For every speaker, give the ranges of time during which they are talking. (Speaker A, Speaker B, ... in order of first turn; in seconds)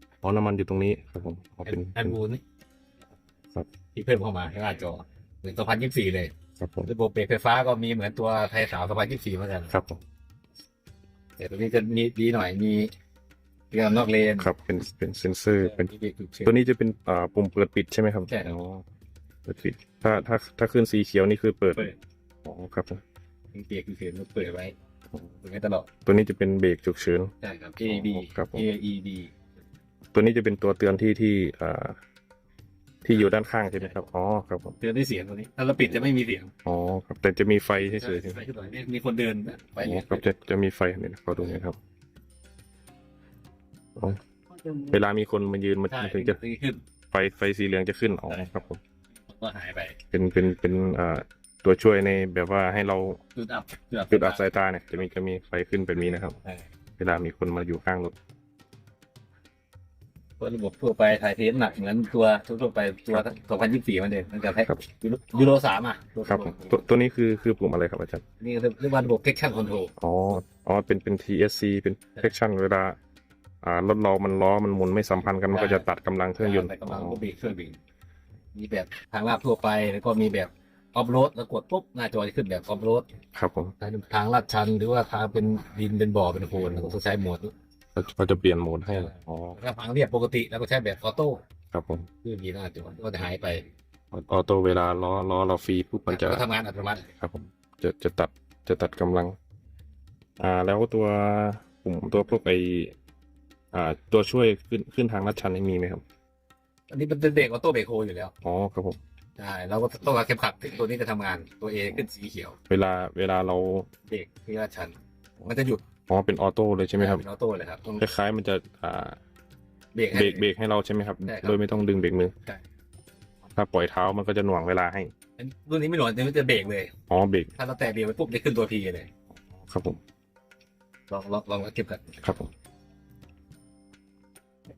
Speaker A: 0.2-2.2, 6.6-6.9, 9.7-10.0, 14.4-15.9, 16.4-18.8, 19.5-21.9, 22.4-23.0, 26.1-28.7, 30.1-32.0, 33.0-34.8, 36.6-38.4, 39.8-41.8, 44.9-46.4, 47.1-48.8, 50.1-53.2, 54.1-56.4, 57.0-58.1, 66.3-68.2, 70.0-73.0, 73.6-77.2, 83.3-83.7, 86.6-87.0, 88.0-89.6, 91.7-92.1, 94.1-96.4, 97.2-99.4, 100.4-102.9, 103.7-106.0, 108.4-109.0, 112.7-113.9, 116.1-117.2, 118.0-119.2, 120.1-122.3, 123.5-125.1, 127.1-127.5, 129.6-130.0, 132.2-132.5
Speaker B: 1.6-2.4, 3.9-6.3, 6.9-9.7, 11.4-12.9, 13.7-14.5, 15.6-16.5, 18.3-18.6, 23.5-24.7, 25.4-25.9, 27.4-29.3, 33.2-34.0, 34.8-36.5, 37.8-40.3, 45.9-46.8, 48.3-48.6, 49.3-50.0, 53.4-54.5, 60.4-66.8, 68.4-69.9, 75.5-75.9, 76.4-77.8, 78.5-83.1, 83.8-87.5, 88.9-91.4, 92.2-93.7, 96.1-97.1, 106.9-108.3, 109.4-112.6, 114.1-115.8, 117.0-118.0, 119.9-120.5, 121.2-121.6, 125.4-126.9, 127.5-129.1, 131.1-132.2